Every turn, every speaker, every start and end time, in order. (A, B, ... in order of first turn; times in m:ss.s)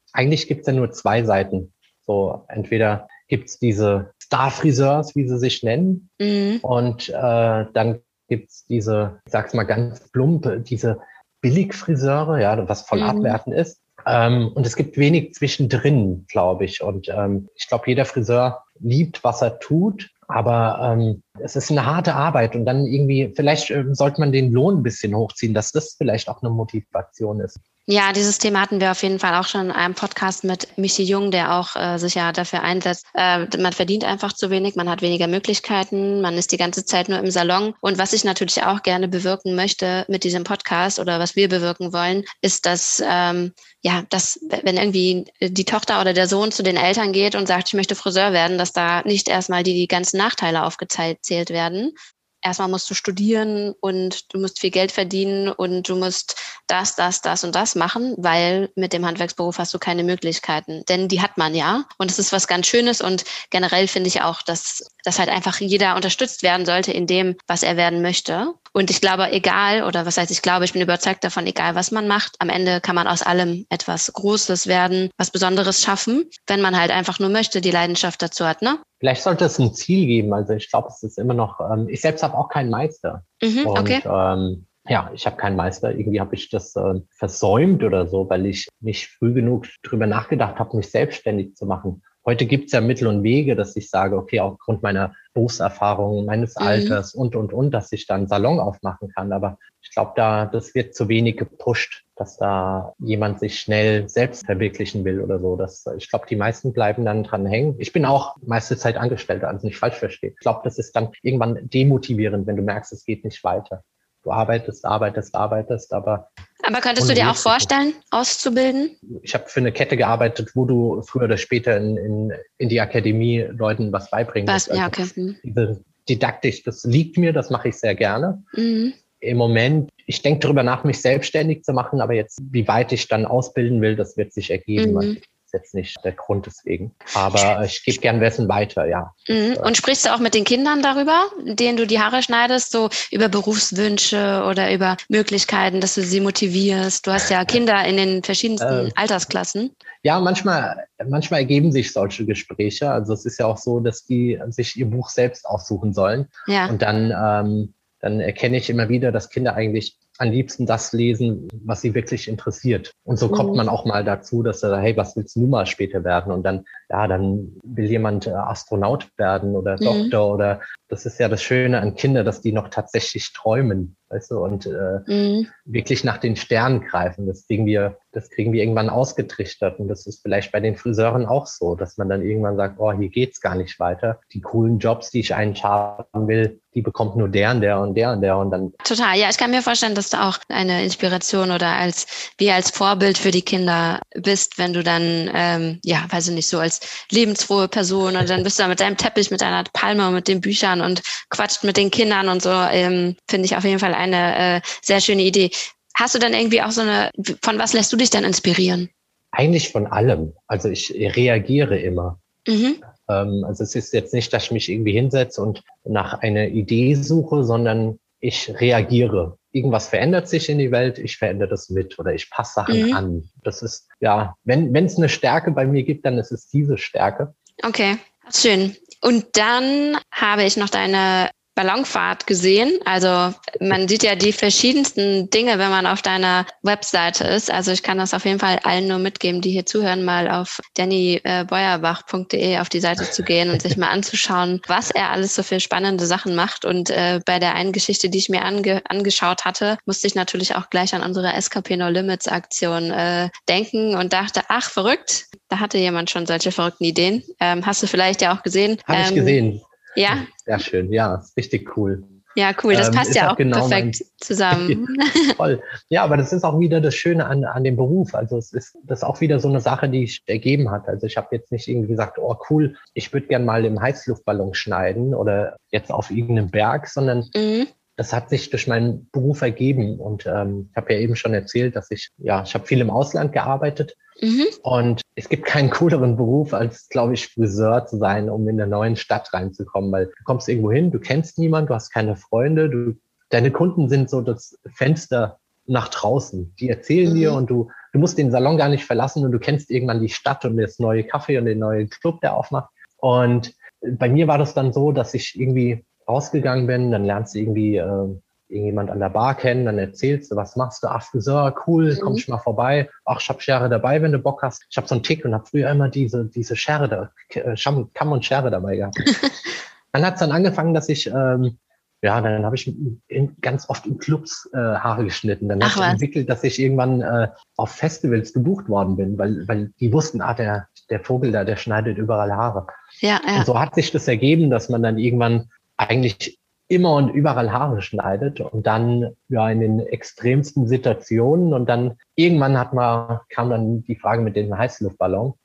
0:00.1-0:06.1 A
0:06.2-0:06.6 B
0:06.6-0:27.6 A
0:12.9-0:13.4 B
0:27.9-1:18.8 B
1:19.0-1:56.3 A
1:23.4-1:24.0 B
1:36.6-1:37.0 B
1:56.6-1:59.0 B
1:57.0-1:57.7 A
1:59.1-2:08.5 A
2:04.5-2:05.4 B
2:08.5-2:09.0 B
2:09.2-2:19.7 A
2:14.8-2:15.2 B
2:19.3-2:29.7 B
2:28.6-2:29.0 A
2:30.0-2:55.1 A
2:36.5-2:36.7 B
2:43.3-2:43.6 B
2:49.8-2:50.1 B
2:55.1-2:55.5 B
2:55.6-3:08.8 A
3:08.8-3:28.9 B
3:29.3-3:32.2 A
3:32.5-3:32.8 B
3:33.0-3:47.3 A
3:42.7-3:43.0 B
3:47.6-4:19.4 B
4:18.9-4:22.2 A
4:20.0-4:20.3 B
4:22.4-4:25.4 B
4:22.7-4:24.8 A
4:25.4-4:37.3 A
4:37.3-4:37.7 B
4:38.0-4:44.0 A
4:44.2-4:44.6 B
4:44.6-5:19.0 A
4:57.1-4:57.4 B
5:11.9-5:12.2 B
5:19.9-5:32.7 A
5:25.6-5:26.0 B
5:33.0-5:33.5 B
5:33.4-5:45.4 A